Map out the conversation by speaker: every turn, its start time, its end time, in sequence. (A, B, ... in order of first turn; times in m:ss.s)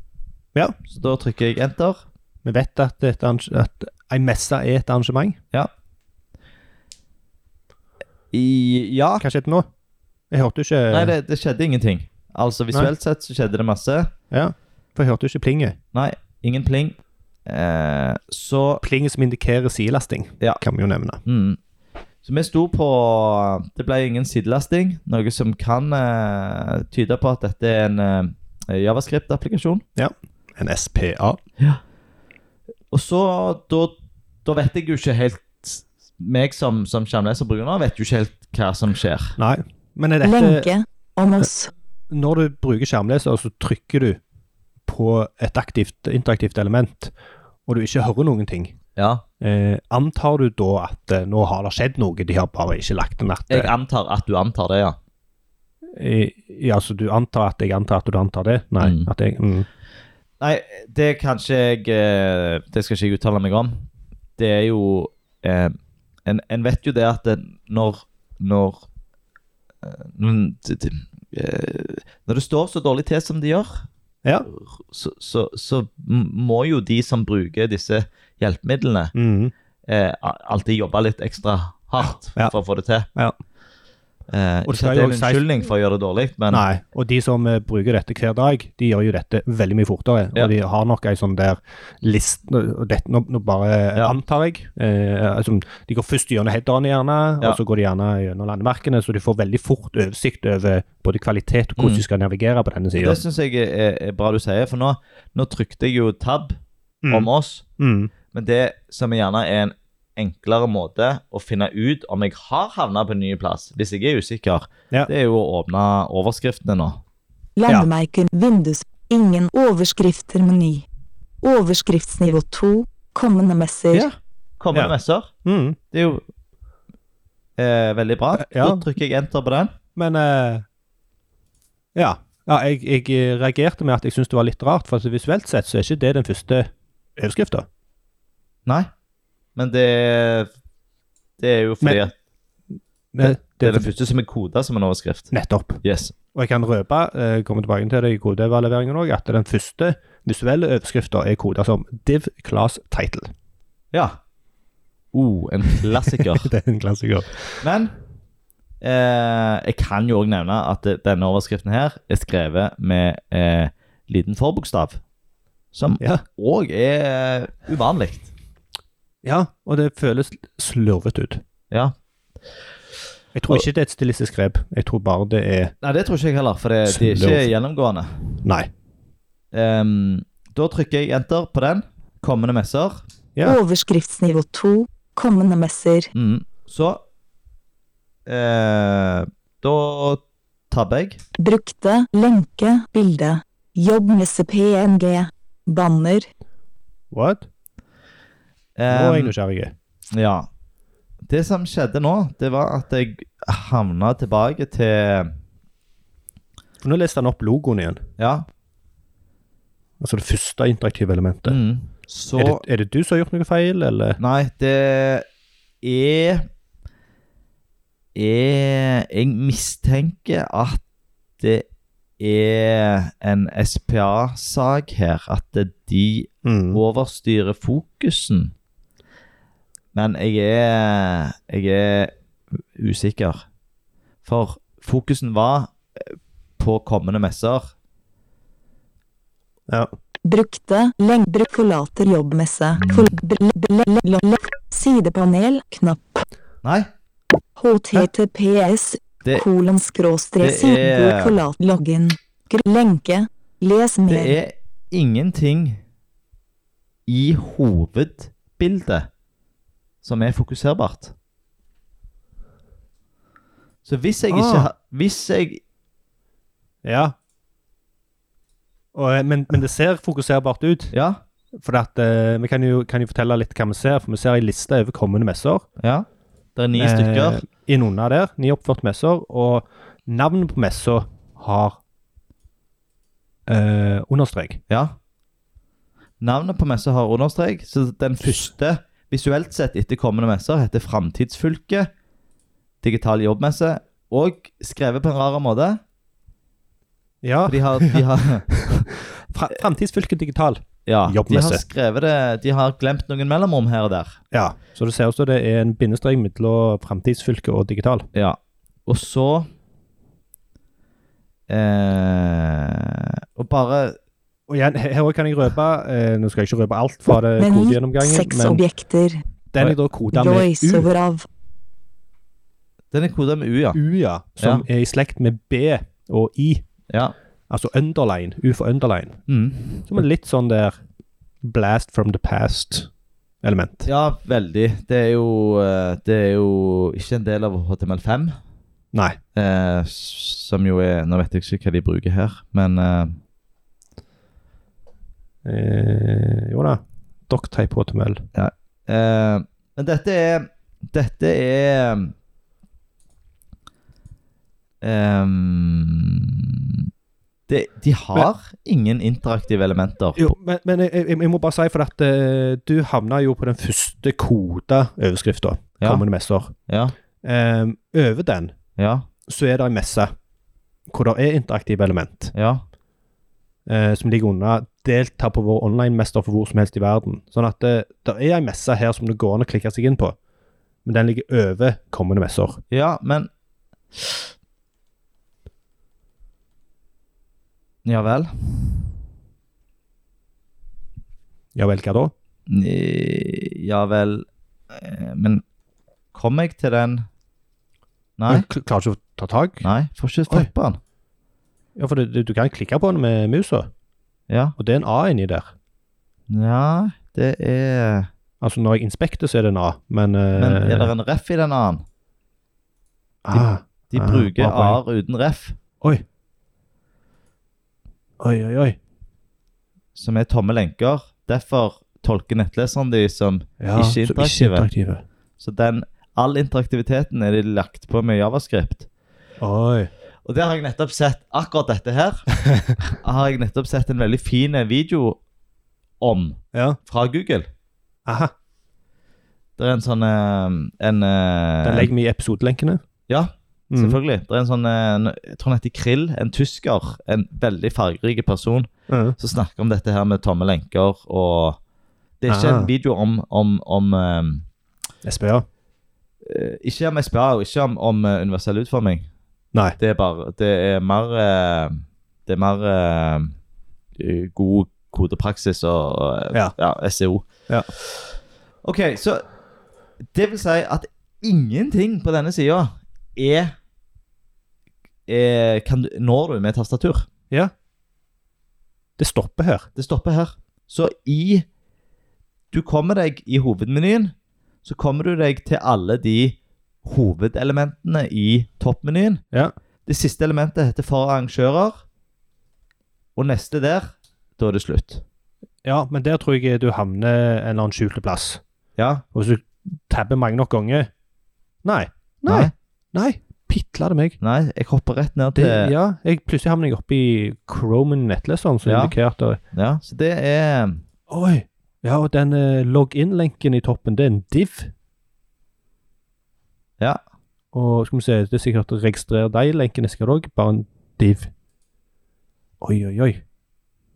0:00.9-0:02.0 A
0:02.4-0:05.4 B
0:08.3-0:09.2 A
0:09.2-0:09.7 B
0:10.3-0:11.1 B
0:10.9-0:14.1 A
0:14.3-0:15.8 B
0:15.9-0:18.8 A
0:18.8-0:21.2 B
0:21.2-0:21.6 A
0:22.2-0:29.8 A
0:30.0-0:31.4 B
0:32.9-0:39.4 A
0:39.4-0:40.7 B
0:40.2-0:41.7 C
0:42.1-0:44.2 B
0:44.8-0:47.1 B
0:47.7-0:48.8 B
0:49.0-0:49.2 A
0:49.4-0:53.7 B
0:53.5-0:55.0 A
0:55.9-0:59.7 B
0:58.8-0:59.1 A
1:00.4-1:03.8 A
1:04.4-1:08.8 A
1:09.8-1:13.9 A
1:14.5-1:19.1 A
1:19.1-1:19.5 B
1:19.8-1:23.1 A
1:24.3-1:26.6 A
1:24.6-1:25.4 B
1:26.5-1:43.2 B
1:41.8-1:42.0 A
1:43.0-1:47.6 A
1:47.0-1:48.1 B
1:48.3-1:57.0 A
1:57.6-2:00.8 C
2:01.4-2:04.1 C
2:03.9-2:05.3 A
2:05.4-2:05.8 B
2:05.9-2:06.2 A
2:07.6-2:09.7 A
2:08.4-2:08.8 B
2:10.0-2:10.6 B
2:11.9-2:17.6 B
2:19.6-2:20.5 A
2:21.4-2:22.1 A
2:23.1-2:23.9 B
2:23.2-2:25.3 A
2:25.3-2:25.8 B
2:25.8-2:26.1 A
2:26.3-2:33.3 B
2:33.9-2:34.2 A
2:35.1-2:36.5 A
2:35.9-2:37.6 B
2:37.6-2:37.9 A
2:38.8-2:45.0 A
2:45.7-2:48.3 A
2:49.2-2:51.4 B
2:53.3-2:55.7 B
2:55.8-2:58.4 A
2:56.8-2:57.5 B
2:58.4-2:58.7 B
2:59.5-3:03.0 A
3:03.4-3:06.1 C
3:06.1-3:07.0 A
3:08.2-3:11.2 A
3:11.4-3:16.3 C
3:17.1-3:17.5 B
3:18.8-3:19.3 A
3:18.9-3:19.7 B
3:20.1-3:20.5 A
3:21.3-3:25.3 A
3:26.8-3:28.0 B
3:28.2-3:28.4 A
3:30.0-3:31.6 B
3:31.4-3:32.6 A
3:32.4-3:34.2 B
3:34.2-3:35.2 A
3:35.8-3:36.5 A
3:38.1-3:40.8 A
3:41.4-3:41.6 A
3:42.2-3:48.5 A
3:46.4-3:46.8 B
3:49.9-3:52.1 A
3:52.7-3:53.4 A
3:54.2-3:57.7 A
4:00.2-4:06.2 C
4:02.8-4:03.2 A
4:07.6-4:14.4 C
4:10.4-4:11.4 A
4:14.1-4:15.8 A
4:17.1-4:19.1 A
4:20.0-4:21.1 A
4:23.8-4:25.6 A
4:24.3-4:24.7 B
4:26.8-4:27.1 B
4:28.9-4:30.9 B
4:30.9-4:31.2 A
4:31.6-4:35.6 B
4:35.8-4:37.4 A
4:36.8-4:41.8 B
4:43.5-4:44.6 B
4:44.7-4:44.9 A
4:46.2-4:51.9 A
4:48.2-4:48.5 B
4:52.8-4:55.8 A
4:57.2-5:01.6 B
4:57.5-4:58.9 A
5:00.8-5:04.2 A
5:04.3-5:08.1 B
5:08.1-5:09.5 A
5:11.5-5:14.0 A
5:14.5-5:18.6 B
5:17.4-5:19.2 C
5:19.5-5:20.9 B
5:20.1-5:21.3 C
5:22.9-5:23.8 A
5:23.7-5:26.6 B
5:24.4-5:24.6 A
5:27.5-5:29.2 B
5:29.3-5:30.0 A
5:29.9-5:30.8 B
5:31.4-5:32.9 B
5:33.4-5:33.8 B
5:33.8-5:38.4 A
5:38.9-5:39.2 B
5:39.4-5:43.2 A
5:45.4-5:48.2 B
5:48.3-5:52.1 A
5:54.8-5:56.8 A
5:57.5-6:00.3 A
6:00.2-6:06.5 B
6:06.7-6:06.9 A
6:07.2-6:08.5 B
6:08.8-6:09.1 A
6:09.3-6:10.1 B
6:10.9-6:12.3 B
6:12.3-6:12.6 A
6:13.6-6:20.2 B
6:20.8-6:22.6 B
6:22.7-6:23.3 A
6:24.0-6:24.2 A
6:27.8-6:28.8 A
6:31.5-6:32.1 B
6:32.5-6:35.4 A
6:36.1-6:37.0 A
6:38.2-6:38.5 A
6:38.3-6:39.7 B
6:39.6-6:40.8 A
6:41.8-6:43.7 B
6:44.3-6:44.6 A
6:44.6-6:45.5 B
6:46.3-6:48.1 A
6:48.4-6:50.9 B
6:50.3-6:51.8 A
6:53.2-6:54.8 B
6:53.3-6:55.6 A
6:58.2-6:58.8 B
6:59.9-7:04.7 A
7:03.6-7:05.0 B
7:05.4-7:08.9 A
7:09.4-7:09.9 B
7:10.2-7:12.2 A
7:12.4-7:12.7 B
7:12.8-7:15.2 A
7:16.0-7:17.5 A
7:18.0-7:18.3 B
7:19.6-7:21.9 A
7:21.6-7:22.8 B
7:23.1-7:31.6 A
7:23.7-7:24.0 B
7:28.9-7:29.2 B
7:32.2-7:34.4 A
7:32.3-7:32.7 B
7:35.0-7:35.4 B
7:36.2-7:39.1 A
7:39.8-7:43.3 A
7:44.0-7:48.1 A
7:48.6-7:49.2 A
7:50.1-7:53.5 A
7:55.1-7:57.1 A
7:59.0-7:59.7 B
7:59.8-8:01.4 A
8:02.5-8:04.1 A
8:04.6-8:09.2 A
8:09.8-8:11.8 A
8:13.2-8:15.0 A
8:15.6-8:18.4 B
8:18.8-8:19.0 A
8:19.1-8:20.9 B
8:21.6-8:24.2 B
8:22.2-8:22.5 A
8:24.2-8:25.7 A
8:25.3-8:29.4 B
8:28.6-8:28.9 A
8:29.5-8:30.8 A
8:31.1-8:34.7 B
8:37.5-8:41.3 B
8:42.6-8:43.2 B